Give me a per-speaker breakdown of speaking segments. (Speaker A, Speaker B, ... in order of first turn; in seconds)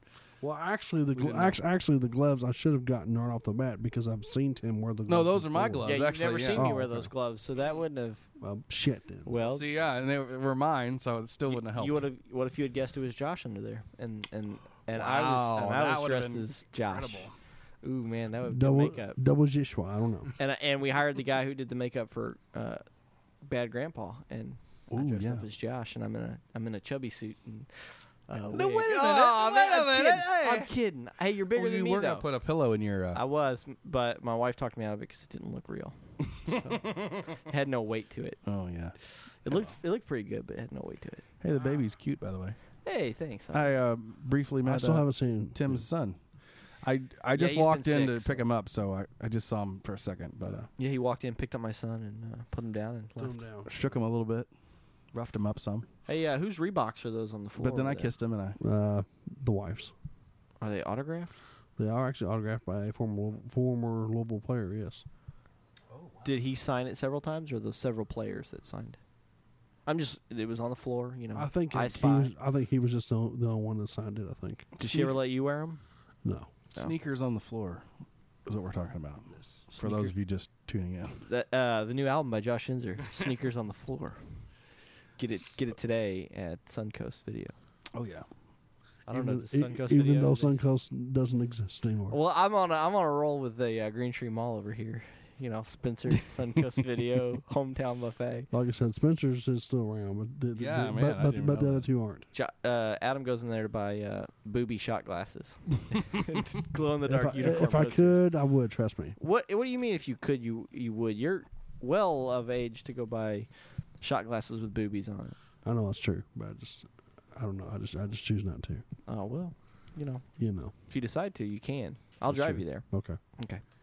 Speaker A: 0.4-6.0, 6.5-7.1, 8.4-9.3, 18.5-20.3, 44.6-45.8, 50.4-50.7, 53.2-53.7, 58.6-59.9, 61.8-65.0, 71.3-74.7, 76.2-76.5, 89.1-92.2, 98.5-102.3, 107.0-109.2, 115.6-118.8, 120.4-120.7, 122.3-123.2
Speaker B: 1.2-1.6, 5.1-6.7, 9.3-12.0, 14.9-17.3, 24.9-25.4, 28.5-30.7, 31.5-33.2, 36.4-37.4, 38.5-39.0, 39.5-39.7, 41.4-42.6, 43.5-46.2, 46.8-50.7, 53.7-54.5, 55.1-55.9, 57.6-58.6, 65.9-66.3, 74.8-75.2, 76.7-77.8, 78.5-81.2, 87.9-88.3, 100.5-101.9
Speaker C: 5.8-8.3, 9.2-9.6, 11.5-17.3, 17.8-19.2, 20.4-22.8, 23.4-32.3, 33.1-38.4, 39.4-41.2, 42.8-43.7, 47.3-48.4, 50.8-53.4, 56.1-58.1, 60.6-61.4, 66.2-69.0, 69.9-72.3, 74.8-75.8, 79.7-80.1, 81.3-84.2, 85.2-87.5, 89.1-90.5, 92.1-98.5, 102.3-108.2, 109.2-113.5, 114.0-115.4, 119.1-120.3, 120.9-122.9, 123.4-123.6